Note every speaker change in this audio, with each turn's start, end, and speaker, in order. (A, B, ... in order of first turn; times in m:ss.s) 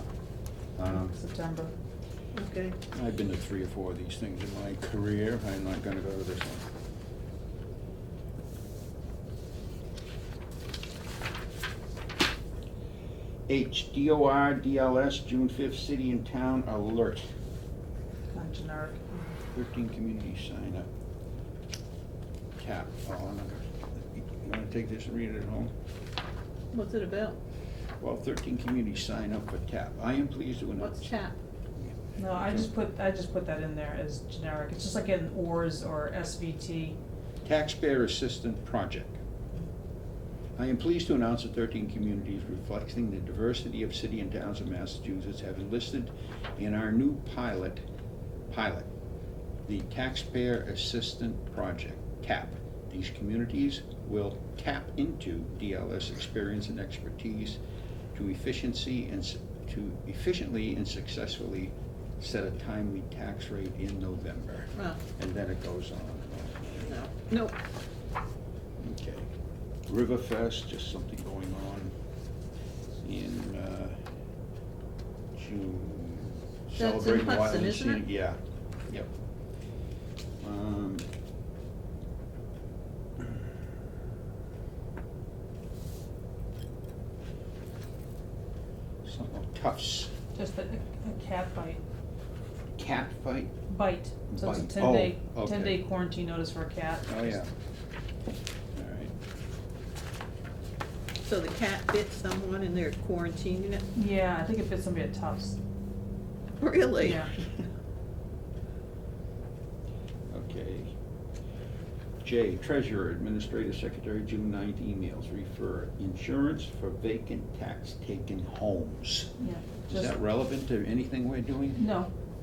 0:00.8-0:01.1 A
0:00.9-0:01.7 B
0:02.3-0:02.8 C
0:02.9-0:06.7 A
0:13.5-0:17.2 A
0:18.3-0:19.4 B
0:19.5-0:20.9 A
0:22.6-0:25.7 A
0:26.7-0:27.4 C
0:28.0-0:31.1 A
0:30.8-0:31.4 C
0:31.9-0:32.7 A
0:32.2-0:37.0 B
0:37.4-0:39.2 A
0:40.6-0:47.8 A
0:48.5-0:48.9 A
0:49.7-0:57.6 A
0:58.1-1:06.9 A
1:06.8-1:07.6 C
1:08.8-1:09.3 A
1:09.9-1:11.9 A
1:13.0-1:14.0 A
1:15.3-1:19.1 A
1:16.8-1:18.0 C
1:20.4-1:21.0 A
1:29.0-1:30.1 A
1:30.3-1:31.8 B
1:32.8-1:33.6 A
1:33.7-1:37.4 B
1:34.3-1:35.8 A
1:37.1-1:37.5 A
1:38.8-1:39.1 A
1:41.2-1:43.9 C
1:43.9-1:45.6 B
1:46.6-1:47.3 C
1:47.0-1:47.4 B
1:50.3-1:50.9 A
1:52.2-1:59.3 A
1:59.4-2:00.1 B
1:59.9-2:02.0 A
2:01.8-2:02.1 B